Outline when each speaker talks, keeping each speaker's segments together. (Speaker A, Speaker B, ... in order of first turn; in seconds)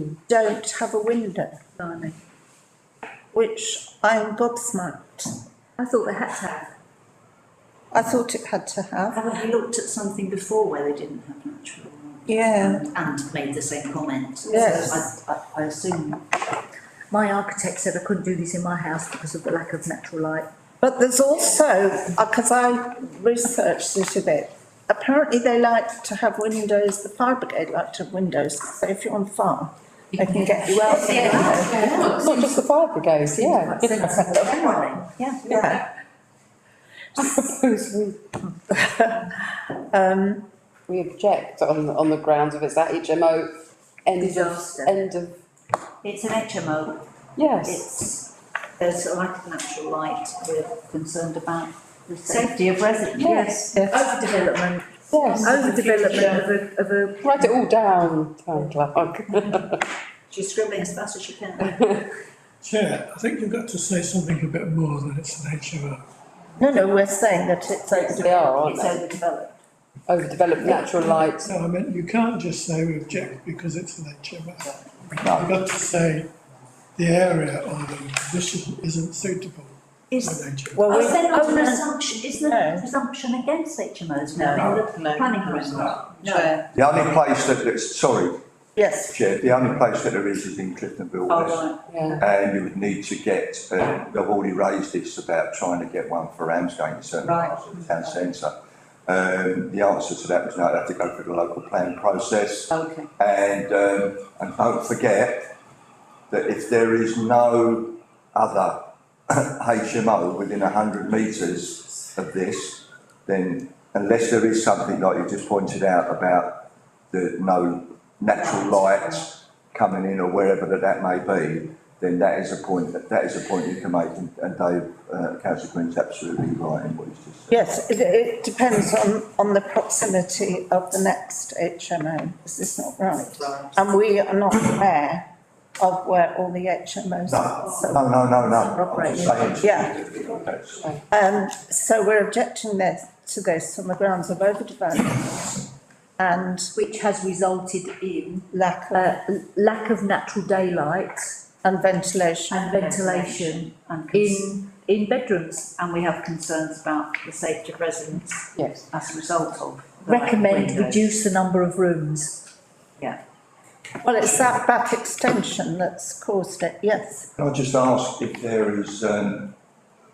Speaker A: 0.3-1.6, 3.3-5.3, 7.9-9.2, 12.3-12.8, 14.4-15.1, 20.8-32.0, 35.4-35.8, 38.7-40.5, 66.6-68.7, 80.7-82.9, 86.2-86.6, 88.8-89.1, 127.5-135.3, 135.8-138.0, 139.6-140.0, 141.1-145.6, 146.2-146.7, 148.5-149.2, 151.6-152.6, 164.0-167.3
Speaker B: 1.8-2.1, 5.8-6.7, 14.5-14.9, 17.1-20.5, 33.4-35.0, 44.2-45.0, 52.1-52.5, 53.2-57.4, 81.1-83.1, 84.6-86.5, 138.7-139.5, 146.7-151.4, 152.5-156.6, 160.0-162.4
Speaker C: 9.1-16.2, 30.6-32.4, 33.5-35.6, 46.0-48.2, 48.8-51.7, 52.2-54.4, 55.1-56.7, 59.5-62.0, 67.9-69.5, 80.9-86.4, 91.3-92.2, 97.2-97.5, 133.2-133.7, 152.5-154.6, 155.8-161.1
Speaker D: 30.9-34.1, 37.1-38.2, 40.9-43.5, 44.0-45.4, 47.4-47.9, 53.1-53.5, 55.1-55.5, 57.2-59.8, 61.6-61.9, 68.2-69.0, 70.1-71.5, 91.9-92.2, 158.6-158.8
Speaker E: 62.6-66.0, 70.7-76.3, 77.0-81.0
Speaker F: 75.2-75.5, 86.7-88.4, 89.1-98.5, 99.1-105.5, 106.3-127.5, 137.3-140.9, 167.4-169.6